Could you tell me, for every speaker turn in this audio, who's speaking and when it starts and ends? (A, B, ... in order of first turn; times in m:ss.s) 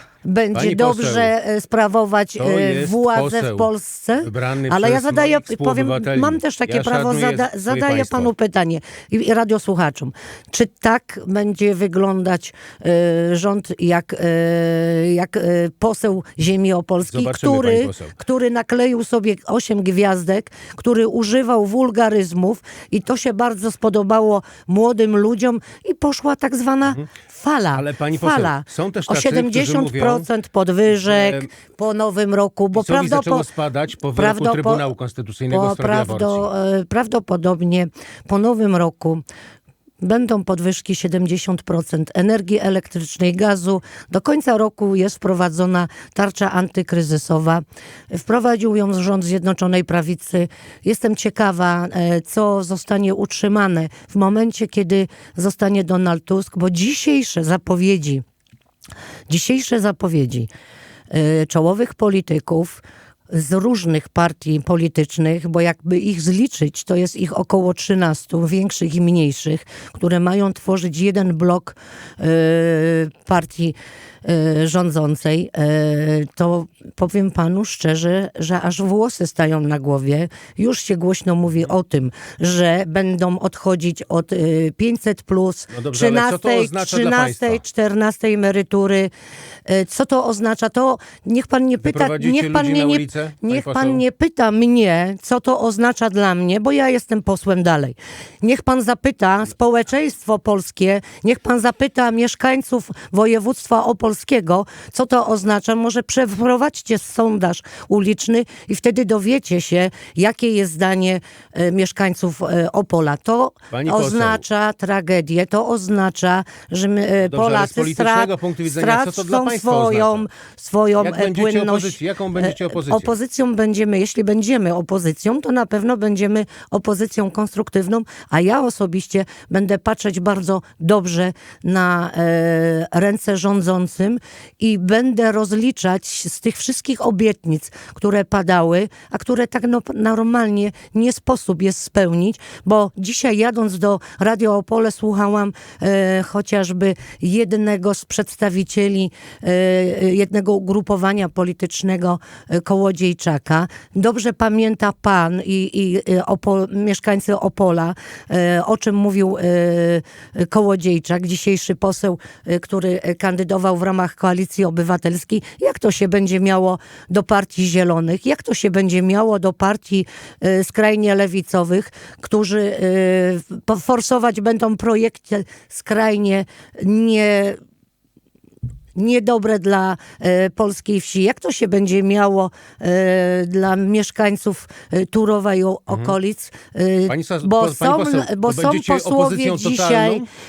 0:00.2-0:33.5 A
0:00.5-0:01.3 B
0:02.4-0:08.3 B
0:17.0-0:18.1 B
0:27.7-0:30.3 B
0:30.9-0:31.5 B
0:32.7-0:36.5 B
0:34.1-0:34.9 A
0:35.5-0:39.2 A
0:40.0-0:58.2 A
0:59.3-1:00.5 A
1:01.1-1:29.1 A
1:25.7-1:27.6 B
1:29.6-2:57.6 A
1:31.8-1:34.0 B
1:53.7-1:54.4 B
1:57.2-2:00.3 B
2:01.0-2:03.1 B
2:58.9-3:10.2 A
3:05.9-3:06.2 B
3:07.1-3:10.3 B